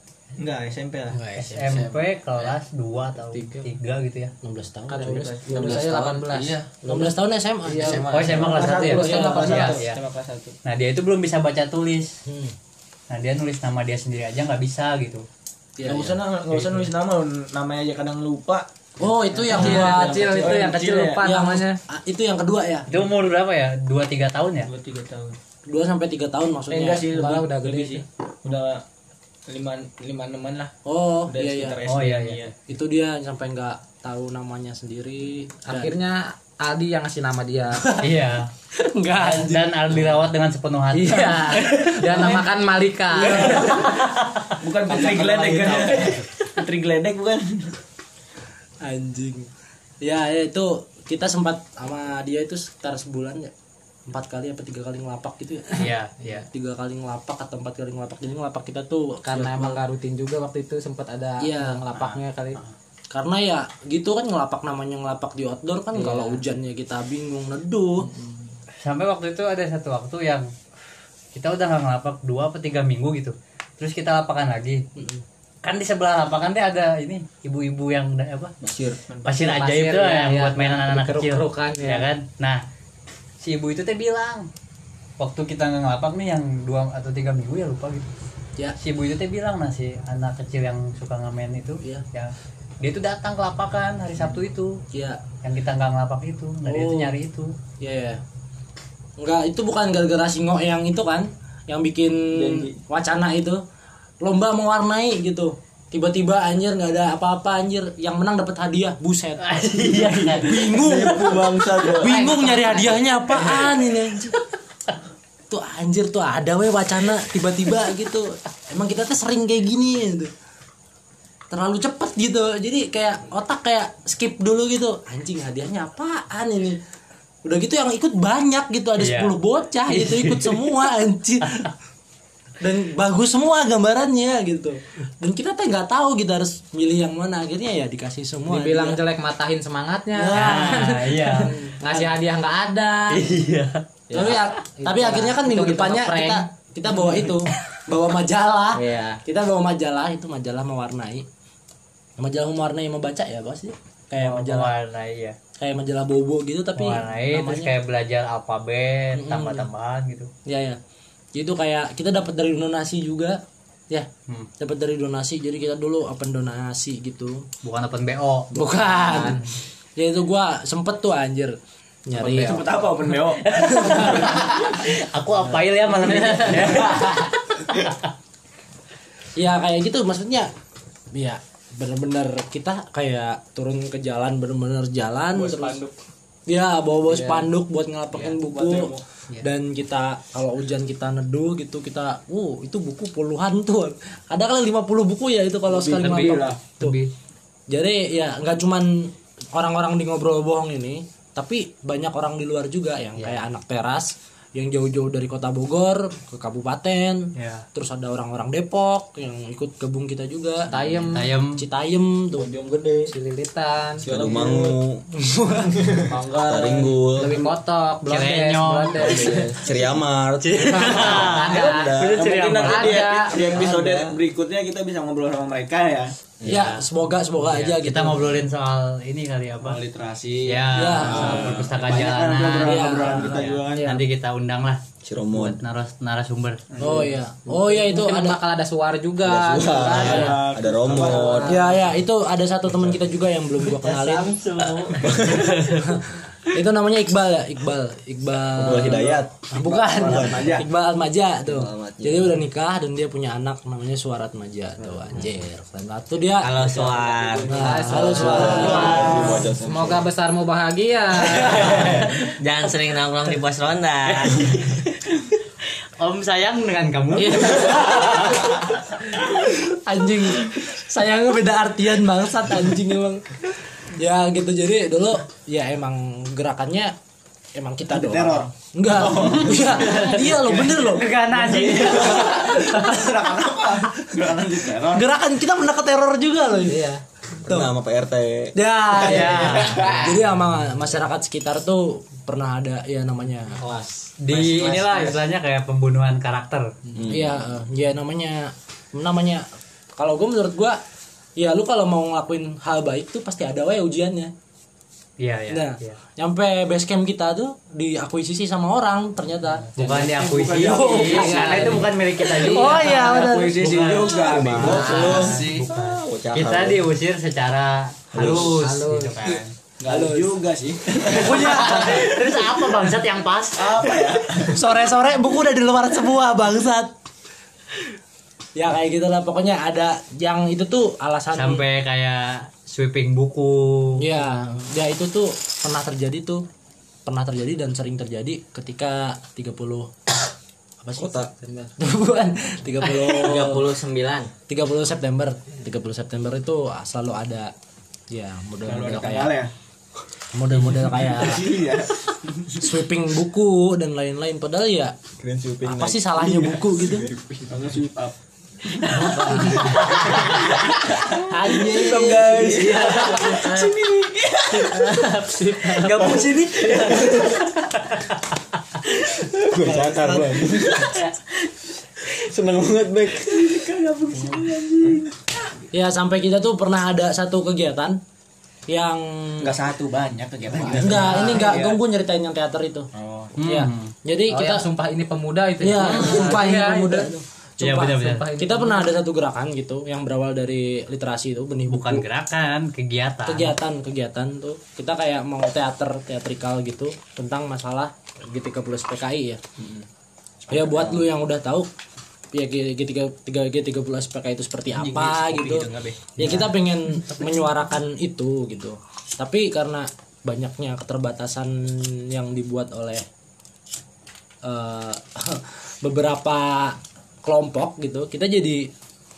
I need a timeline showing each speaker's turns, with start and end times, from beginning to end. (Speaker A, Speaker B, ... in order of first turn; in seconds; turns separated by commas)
Speaker A: 0.4-1.9, Speaker B: 1.3-4.3, Speaker C: 4.4-6.0, Speaker D: 4.9-6.6, Speaker A: 5.0-7.0, Speaker C: 6.8-9.6, Speaker D: 7.7-8.0, Speaker A: 7.8-10.6, Speaker B: 8.1-10.0, Speaker D: 8.6-9.8, Speaker B: 10.6-12.2, Speaker C: 12.2-12.5, Speaker B: 13.1-15.2, Speaker C: 15.8-16.8, Speaker A: 15.8-18.7, Speaker C: 19.0-22.9, Speaker A: 19.4-21.2, Speaker D: 19.4-21.8, Speaker B: 22.9-24.7, Speaker A: 24.6-25.4, Speaker C: 25.6-27.4, Speaker A: 26.7-28.8, Speaker D: 27.1-28.0, Speaker A: 29.5-30.7, Speaker C: 30.8-31.8, Speaker A: 31.3-32.5, Speaker B: 31.9-32.5, Speaker C: 32.7-35.9, Speaker D: 35.7-37.9, Speaker C: 37.8-38.1, Speaker B: 38.0-38.5, Speaker C: 38.7-40.1, Speaker B: 39.1-41.7, Speaker D: 40.9-43.7, Speaker C: 41.6-42.3, Speaker C: 43.2-43.9, Speaker A: 43.3-43.9, Speaker A: 44.6-47.7, Speaker C: 44.9-46.2, Speaker C: 48.8-49.5, Speaker C: 50.0-53.5, Speaker C: 54.1-59.8, Speaker B: 55.8-56.5, Speaker D: 59.2-62.6, Speaker C: 61.4-61.9, Speaker B: 62.0-62.7, Speaker C: 63.1-68.1, Speaker D: 65.9-66.4, Speaker B: 68.8-70.5, Speaker B: 71.3-74.8, Speaker C: 75.0-75.2, Speaker B: 75.6-78.5, Speaker A: 78.6-79.3, Speaker B: 79.2-82.6, Speaker D: 79.3-82.1, Speaker B: 83.4-84.5, Speaker B: 85.2-88.1, Speaker B: 88.8-94.8, Speaker C: 94.9-95.2, Speaker B: 95.4-97.5, Speaker C: 96.6-97.2, Speaker C: 97.8-98.2, Speaker C: 99.2-103.6, Speaker A: 102.3-102.7, Speaker C: 104.2-114.4, Speaker B: 109.4-111.0, Speaker A: 110.4-112.3, Speaker D: 112.0-113.0, Speaker C: 115.5-120.3, Speaker C: 121.5-126.8, Speaker C: 127.4-131.7, Speaker B: 129.0-129.3, Speaker B: 129.9-130.8, Speaker C: 132.6-139.0, Speaker D: 138.5-143.4, Speaker B: 140.2-141.6, Speaker B: 143.1-143.8, Speaker D: 144.1-146.5, Speaker C: 144.1-151.3, Speaker D: 148.7-149.2, Speaker C: 152.2-154.7, Speaker B: 154.2-155.4, Speaker C: 155.6-157.7, Speaker B: 156.8-160.3, Speaker C: 159.1-159.7, Speaker C: 160.4-160.8, Speaker C: 161.3-164.1, Speaker C: 164.6-167.5, Speaker B: 167.6-169.2, Speaker C: 168.5-172.7, Speaker D: 169.0-169.4, Speaker A: 172.2-174.4, Speaker C: 173.4-174.2, Speaker B: 173.6-178.0, Speaker D: 176.1-176.7, Speaker C: 176.2-177.0, Speaker A: 176.6-177.1, Speaker C: 179.3-180.5, Speaker C: 181.1-185.8, Speaker A: 185.3-185.9, Speaker C: 186.5-197.0, Speaker D: 187.1-187.4, Speaker A: 188.1-189.0, Speaker A: 195.7-196.6, Speaker B: 195.9-197.1, Speaker C: 197.7-212.5, Speaker B: 203.2-203.4, Speaker B: 207.3-207.6, Speaker D: 210.7-211.2, Speaker B: 211.1-211.6, Speaker A: 212.3-213.1, Speaker D: 213.1-214.1, Speaker A: 214.0-214.8, Speaker E: 214.0-215.0, Speaker C: 215.2-215.9, Speaker A: 215.9-216.2, Speaker E: 216.3-217.5, Speaker D: 216.8-219.6, Speaker B: 218.1-219.3, Speaker A: 219.0-219.8, Speaker E: 219.6-222.2, Speaker B: 220.4-223.1, Speaker D: 220.6-221.9, Speaker A: 222.0-226.1, Speaker D: 222.6-223.5, Speaker E: 223.5-224.1, Speaker B: 226.4-226.8, Speaker C: 226.4-228.4, Speaker B: 227.4-229.8, Speaker A: 229.6-234.0, Speaker B: 230.4-234.8, Speaker C: 230.7-231.7, Speaker C: 232.4-233.4, Speaker D: 233.7-234.0, Speaker E: 235.0-235.6, Speaker B: 235.3-236.6, Speaker A: 236.7-237.2, Speaker C: 236.8-238.4, Speaker D: 237.5-240.4, Speaker E: 239.2-241.6, Speaker A: 239.5-241.6, Speaker B: 240.0-240.4, Speaker D: 241.1-241.7, Speaker C: 241.4-244.4, Speaker F: 243.7-245.8, Speaker E: 245.1-245.4, Speaker C: 245.3-256.8, Speaker E: 248.6-249.4, Speaker A: 248.7-250.7, Speaker E: 250.0-250.5, Speaker F: 256.4-257.7, Speaker A: 256.8-259.1, Speaker C: 257.4-259.1, Speaker D: 257.5-262.1, Speaker E: 258.0-260.1, Speaker F: 261.6-264.5, Speaker B: 264.3-264.8, Speaker B: 266.0-268.4, Speaker C: 267.2-268.4, Speaker D: 267.3-268.4, Speaker C: 269.2-276.9, Speaker C: 277.5-281.2, Speaker A: 277.9-285.1, Speaker B: 280.7-283.0, Speaker C: 284.9-286.9, Speaker D: 286.6-287.0, Speaker C: 287.4-287.7, Speaker E: 287.5-288.5, Speaker C: 288.5-293.6, Speaker B: 288.9-290.2, Speaker A: 289.2-290.1, Speaker B: 294.2-296.7, Speaker A: 294.3-295.1, Speaker E: 297.0-297.4, Speaker C: 297.1-300.8, Speaker C: 301.4-304.3, Speaker B: 305.2-306.0, Speaker C: 305.5-315.2, Speaker B: 309.7-313.3, Speaker A: 309.9-311.6, Speaker D: 310.8-311.9, Speaker D: 312.4-312.8, Speaker A: 312.6-315.7, Speaker E: 314.1-316.9, Speaker D: 314.6-315.3, Speaker B: 314.7-319.5, Speaker E: 318.1-318.6, Speaker D: 318.4-319.3, Speaker A: 319.8-322.1, Speaker C: 319.8-320.3, Speaker C: 321.1-322.2, Speaker B: 321.1-323.9, Speaker A: 323.6-324.6, Speaker C: 324.4-326.9, Speaker C: 328.5-331.6, Speaker B: 331.3-334.1, Speaker C: 334.0-336.4, Speaker C: 337.1-339.9, Speaker C: 340.8-343.7, Speaker E: 340.9-341.3, Speaker D: 341.4-341.7, Speaker F: 343.0-344.3, Speaker C: 344.5-347.5, Speaker C: 348.1-349.4, Speaker A: 348.6-349.5, Speaker C: 350.3-351.6, Speaker A: 350.8-352.6, Speaker C: 352.5-354.9, Speaker E: 355.2-357.6, Speaker C: 355.6-357.1, Speaker A: 357.5-358.1, Speaker A: 358.7-365.1, Speaker C: 358.9-360.3, Speaker D: 359.1-359.9, Speaker C: 361.2-363.4, Speaker D: 362.5-363.7, Speaker D: 364.5-366.1, Speaker B: 365.8-367.1, Speaker A: 366.0-367.4, Speaker E: 369.4-370.9, Speaker A: 369.6-371.0, Speaker E: 372.3-373.5, Speaker A: 373.2-375.0, Speaker C: 375.7-378.0, Speaker C: 378.7-379.6, Speaker A: 379.4-381.8, Speaker C: 380.6-384.7, Speaker D: 381.0-381.5, Speaker A: 382.9-383.3, Speaker B: 383.4-383.9, Speaker D: 384.3-387.1, Speaker C: 385.6-392.0, Speaker B: 385.8-386.4, Speaker B: 387.6-388.2, Speaker D: 387.9-388.9, Speaker B: 391.7-393.6, Speaker C: 393.2-399.4, Speaker C: 400.5-401.7, Speaker A: 400.6-400.9, Speaker C: 402.3-413.1, Speaker A: 404.7-406.4, Speaker C: 414.4-418.7